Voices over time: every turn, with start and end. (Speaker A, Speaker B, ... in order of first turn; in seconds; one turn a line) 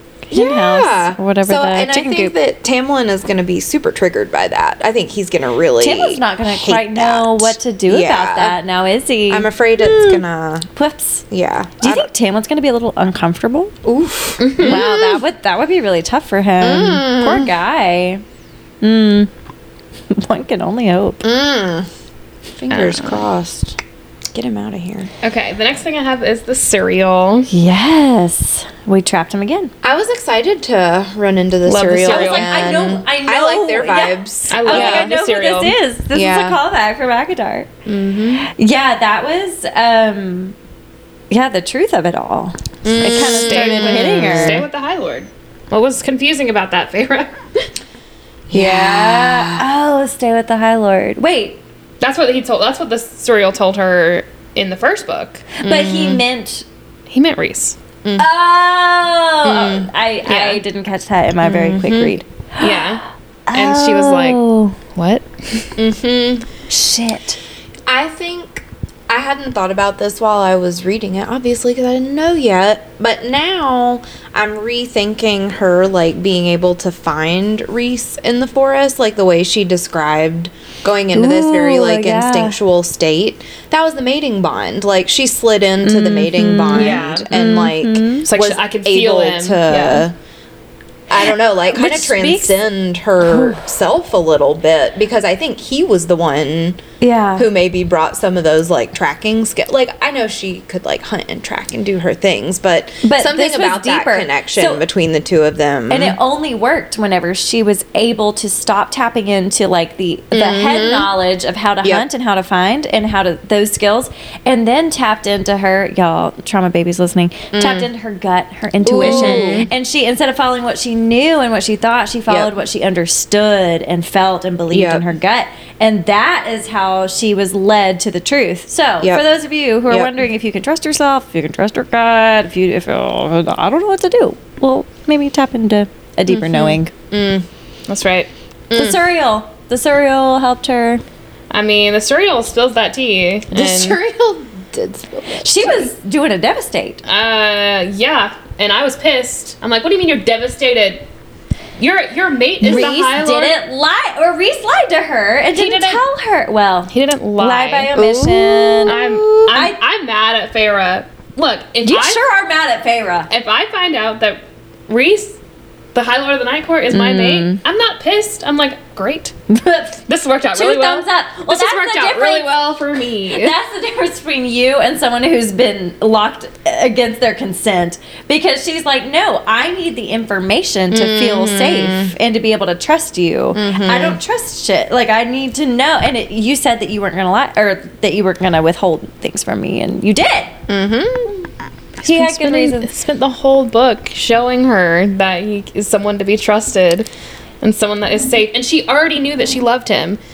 Speaker A: 0.3-2.3
Speaker B: 0.3-8.6
Speaker A: 5.8-10.2
Speaker B: 9.3-10.7
Speaker A: 10.7-11.2
Speaker B: 11.3-12.1
Speaker A: 11.8-13.7
Speaker B: 13.8-15.2
Speaker C: 14.4-14.8
Speaker A: 14.6-18.2
Speaker B: 16.6-17.5
Speaker A: 18.8-19.3
Speaker A: 20.1-21.2
Speaker B: 21.2-21.9
Speaker B: 22.6-23.8
Speaker C: 22.7-23.2
Speaker B: 24.3-25.1
Speaker C: 25.2-27.5
Speaker A: 27.5-29.7
Speaker B: 29.8-35.1
Speaker C: 31.7-32.5
Speaker A: 32.1-37.7
Speaker C: 34.5-35.8
Speaker B: 36.1-36.6
Speaker B: 37.9-38.5
Speaker A: 38.4-40.6
Speaker A: 41.3-44.6
Speaker B: 42.8-44.7
Speaker C: 43.4-47.7
Speaker B: 48.5-49.7
Speaker A: 48.5-51.6
Speaker C: 52.0-55.5
Speaker A: 55.6-56.6
Speaker B: 55.6-56.2
Speaker C: 57.1-57.8
Speaker A: 58.2-62.9
Speaker B: 59.4-59.9
Speaker C: 60.3-60.6
Speaker B: 61.4-62.1
Speaker C: 62.6-63.0
Speaker A: 63.5-64.8
Speaker C: 63.5-64.4
Speaker C: 65.0-65.8
Speaker B: 65.8-66.5
Speaker A: 66.7-67.4
Speaker B: 67.9-90.2
Speaker A: 81.1-82.6
Speaker A: 85.8-88.3
Speaker C: 86.7-87.3
Speaker C: 88.3-90.1
Speaker B: 91.1-96.8
Speaker A: 91.7-92.6
Speaker A: 93.2-93.6
Speaker A: 97.0-97.5
Speaker B: 97.4-106.2
Speaker A: 103.0-104.8
Speaker A: 105.9-136.9
Speaker B: 110.3-111.1
Speaker B: 117.5-117.9
Speaker B: 118.8-119.7
Speaker C: 119.0-119.6
Speaker B: 124.7-125.1
Speaker B: 129.9-130.2
Speaker B: 136.3-137.5
Speaker C: 137.9-138.3
Speaker B: 138.7-139.0
Speaker A: 138.7-141.0
Speaker C: 141.5-144.0
Speaker B: 143.5-145.9
Speaker A: 145.4-147.0
Speaker C: 147.1-151.1
Speaker C: 151.8-153.6
Speaker B: 152.6-153.0
Speaker A: 152.6-159.0
Speaker C: 155.6-156.0
Speaker C: 156.9-157.9
Speaker B: 157.9-159.7
Speaker C: 158.8-162.2
Speaker A: 159.5-159.8
Speaker A: 161.8-163.3
Speaker C: 163.3-165.4
Speaker C: 165.9-169.3
Speaker A: 166.9-167.6
Speaker A: 169.5-170.0
Speaker C: 170.1-173.6
Speaker A: 170.5-172.5
Speaker A: 173.3-190.6
Speaker B: 180.9-182.1
Speaker B: 183.5-184.2
Speaker B: 190.7-191.5
Speaker A: 192.0-192.9
Speaker C: 192.0-197.1
Speaker C: 197.6-200.2